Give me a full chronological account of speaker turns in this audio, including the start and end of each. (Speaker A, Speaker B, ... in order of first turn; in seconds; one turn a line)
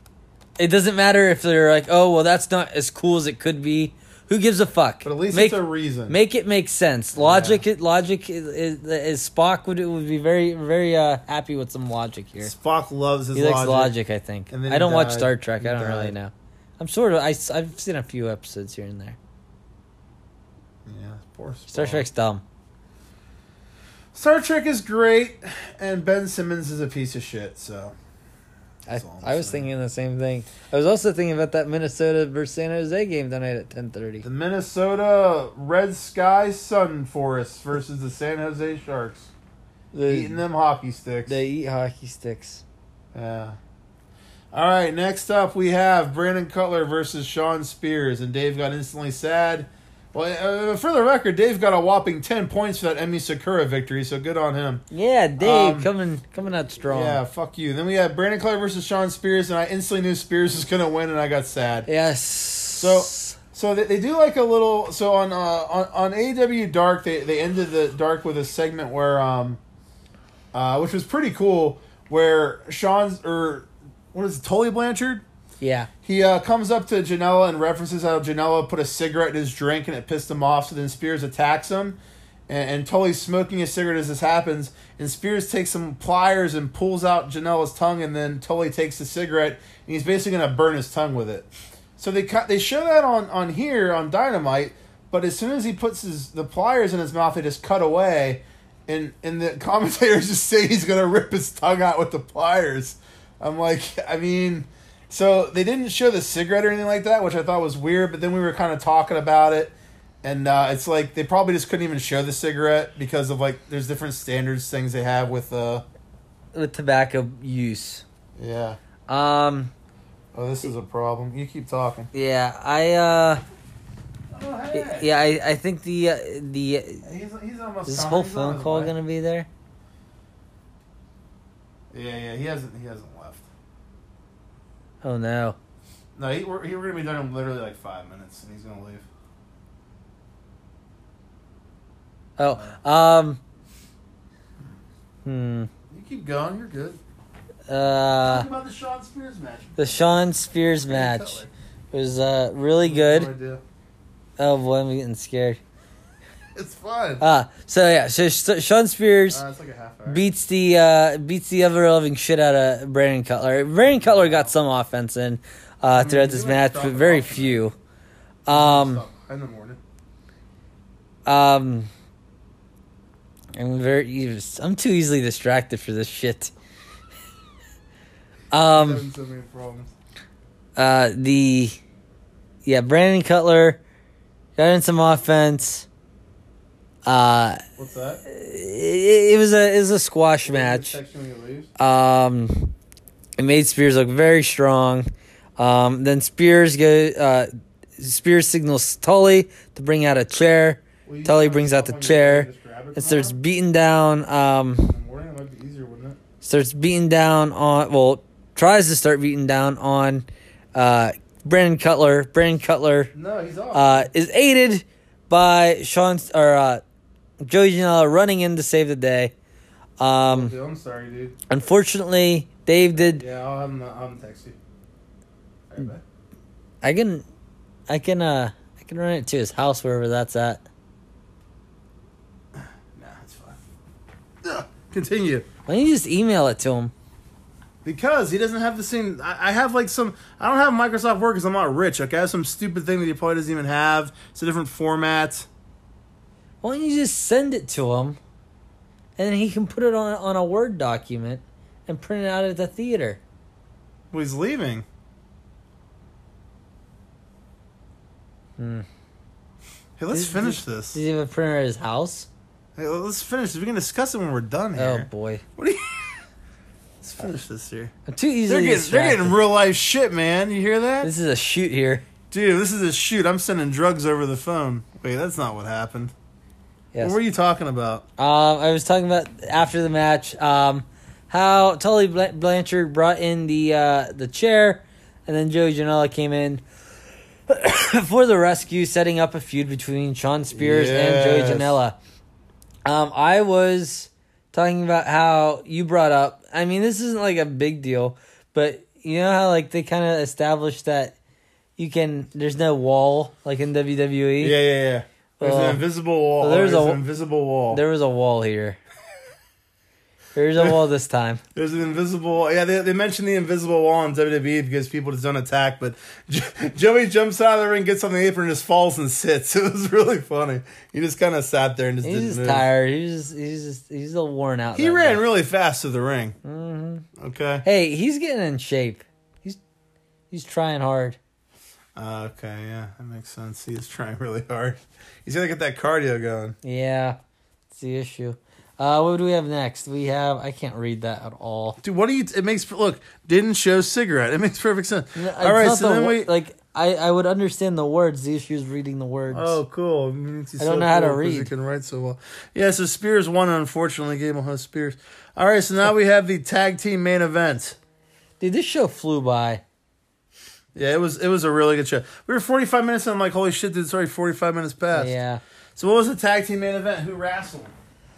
Speaker A: 0.6-12.5
Speaker B: 5.0-6.2
Speaker B: 7.2-7.6
Speaker B: 12.4-13.9
Speaker A: 13.3-19.2
Speaker B: 14.5-16.1
Speaker B: 20.9-22.1
Speaker A: 21.7-22.4
Speaker B: 24.1-27.9
Speaker A: 28.9-34.3
Speaker B: 28.9-29.7
Speaker B: 34.2-39.3
Speaker A: 39.9-40.4
Speaker B: 40.1-41.4
Speaker A: 41.3-42.6
Speaker B: 43.1-43.6
Speaker B: 44.5-54.8
Speaker A: 54.9-57.2
Speaker B: 55.4-55.9
Speaker B: 56.9-61.9
Speaker A: 61.9-63.4
Speaker B: 62.8-69.6
Speaker B: 70.5-75.2
Speaker A: 75.6-75.9
Speaker B: 76.0-82.0
Speaker B: 82.5-115.8
Speaker A: 116.5-118.0
Speaker B: 118.4-118.8
Speaker A: 119.1-119.7
Speaker B: 120.3-122.1
Speaker A: 122.1-123.4
Speaker B: 124.3-125.1
Speaker A: 124.7-127.1
Speaker B: 127.0-128.9
Speaker A: 127.9-129.5
Speaker B: 131.9-133.5
Speaker A: 135.0-135.6
Speaker B: 136.2-139.1
Speaker A: 142.4-143.4
Speaker A: 145.2-145.7
Speaker B: 145.9-147.0
Speaker A: 147.7-148.5
Speaker B: 148.2-149.9
Speaker A: 149.8-153.3
Speaker B: 150.9-151.5
Speaker B: 152.8-153.6
Speaker A: 154.4-155.6
Speaker B: 156.6-157.2
Speaker A: 157.2-159.4
Speaker B: 159.3-160.2
Speaker A: 160.1-167.8
Speaker B: 163.9-164.5
Speaker B: 165.9-167.6
Speaker A: 168.5-169.0
Speaker B: 168.5-169.8
Speaker A: 171.3-171.9
Speaker A: 173.5-176.5
Speaker A: 178.5-179.1
Speaker B: 178.7-179.9
Speaker A: 180.8-181.8
Speaker A: 182.7-183.8
Speaker A: 184.6-185.9
Speaker A: 187.1-187.6
Speaker B: 187.8-188.2
Speaker A: 188.3-191.0
Speaker B: 190.4-191.7
Speaker A: 191.8-192.7
Speaker A: 193.4-195.1
Speaker A: 195.6-204.9
Speaker B: 201.1-203.4
Speaker B: 204.8-206.2
Speaker A: 206.4-213.1
Speaker B: 213.1-214.1
Speaker A: 213.7-216.8
Speaker A: 217.4-219.3
Speaker A: 220.0-220.6
Speaker B: 220.2-221.4
Speaker A: 221.5-223.2
Speaker B: 223.0-224.6
Speaker B: 225.7-226.0
Speaker A: 226.8-227.2
Speaker A: 227.9-230.6
Speaker B: 232.6-233.6
Speaker B: 234.4-235.5
Speaker A: 235.7-236.9
Speaker B: 237.8-245.5
Speaker A: 246.6-248.2
Speaker A: 249.2-253.2
Speaker B: 254.1-254.9
Speaker A: 258.6-258.9
Speaker B: 260.0-261.0
Speaker A: 260.1-262.3
Speaker B: 262.8-266.2
Speaker A: 264.8-265.4
Speaker B: 267.0-267.9
Speaker A: 268.1-269.4
Speaker B: 268.5-271.1
Speaker A: 271.0-272.1
Speaker B: 272.3-276.1
Speaker B: 277.0-278.1
Speaker A: 278.2-286.6
Speaker A: 287.5-292.0
Speaker B: 290.5-291.8
Speaker A: 292.9-301.2
Speaker A: 301.8-304.6
Speaker B: 304.4-307.8
Speaker A: 305.4-305.8
Speaker A: 306.4-307.0
Speaker A: 307.7-308.8
Speaker A: 310.4-311.4
Speaker B: 311.6-322.7
Speaker A: 322.0-325.2
Speaker B: 324.8-326.4
Speaker A: 326.4-327.1
Speaker B: 327.2-327.6
Speaker A: 327.6-329.6
Speaker A: 330.3-331.2
Speaker B: 332.0-336.6
Speaker A: 336.6-337.2
Speaker A: 337.7-341.8
Speaker B: 341.8-346.3
Speaker A: 345.1-349.6
Speaker B: 349.3-357.8
Speaker A: 350.6-351.5
Speaker A: 358.4-359.6
Speaker B: 360.8-365.1
Speaker A: 364.9-365.4
Speaker B: 365.8-367.7